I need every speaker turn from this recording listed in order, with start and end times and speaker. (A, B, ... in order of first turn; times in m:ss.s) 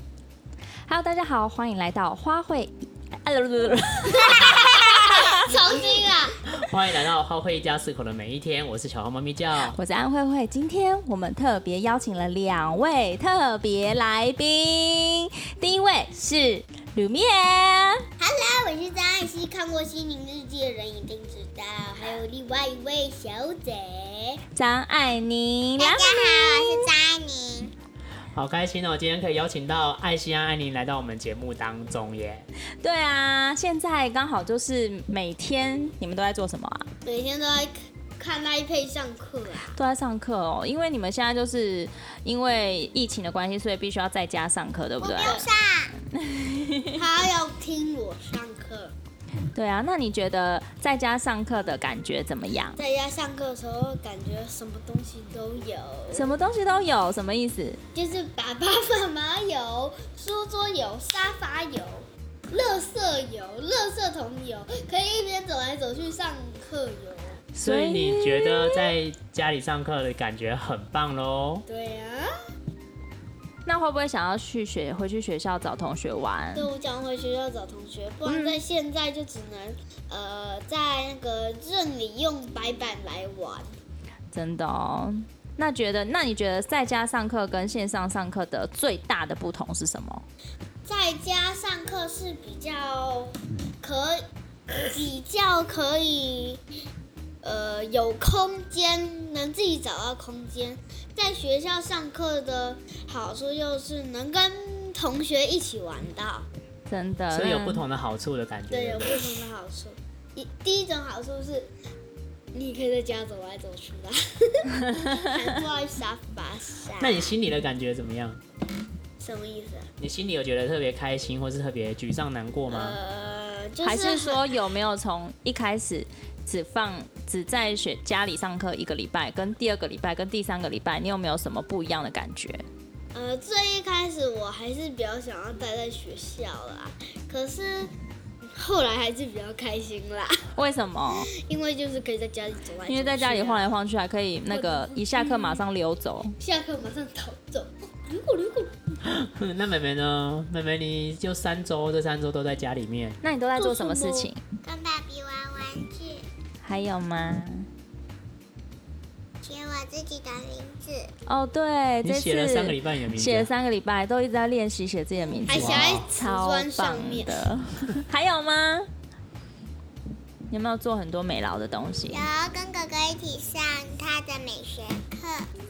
0:00.9-0:05.5 A
0:04.2-0:06.4 B
0:06.5-0:09.8 C
0:09.7-0:18.0 A
0:18.2-0:24.4 B
0:24.6-0:26.8 A
0:25.8-0:27.7 D
0:28.4-0:32.5 C
0:32.8-0:36.9 A
0:37.0-0:39.8 B
0:39.7-0:45.5 A
0:45.0-0:45.9 D
0:46.1-0:47.0 A
0:47.0-0:48.9 B
0:49.5-0:52.8 A
0:52.8-0:56.4 B
0:56.1-0:57.8 A
0:57.9-1:07.4 B
1:07.6-1:11.6 C
1:07.6-1:08.8 A
1:11.7-1:12.3 B
1:13.7-1:16.7 A
1:16.6-1:23.7 B
1:18.2-1:18.6 A
1:24.3-1:30.2 A
1:30.8-1:34.3 B
1:34.8-1:36.6 B
1:37.4-1:46.5 B
1:46.9-1:47.8 A
1:47.3-1:49.3 C
1:48.7-1:51.7 B
1:52.5-1:57.3 B
1:57.0-1:58.4 C
1:59.2-1:59.9 B
2:00.0-2:03.0 C
2:02.7-2:04.4 B
2:03.8-2:12.6 A
2:13.1-2:17.9 B
2:18.4-2:20.5 B
2:20.6-2:21.3 A
2:21.4-2:23.7 B
2:22.8-2:26.4 A
2:24.5-2:25.6 B
2:26.4-2:28.7 B
2:29.0-2:33.2 C
2:33.2-2:34.4 A
2:33.6-2:34.3 B
2:34.6-2:36.3 D
2:36.6-2:37.7 A
2:39.4-2:41.1 D
2:41.3-2:48.9 A
2:42.0-2:43.5 C
2:45.4-2:47.5 B
2:45.5-2:46.1 C
2:50.5-2:52.2 A
2:52.1-2:55.5 D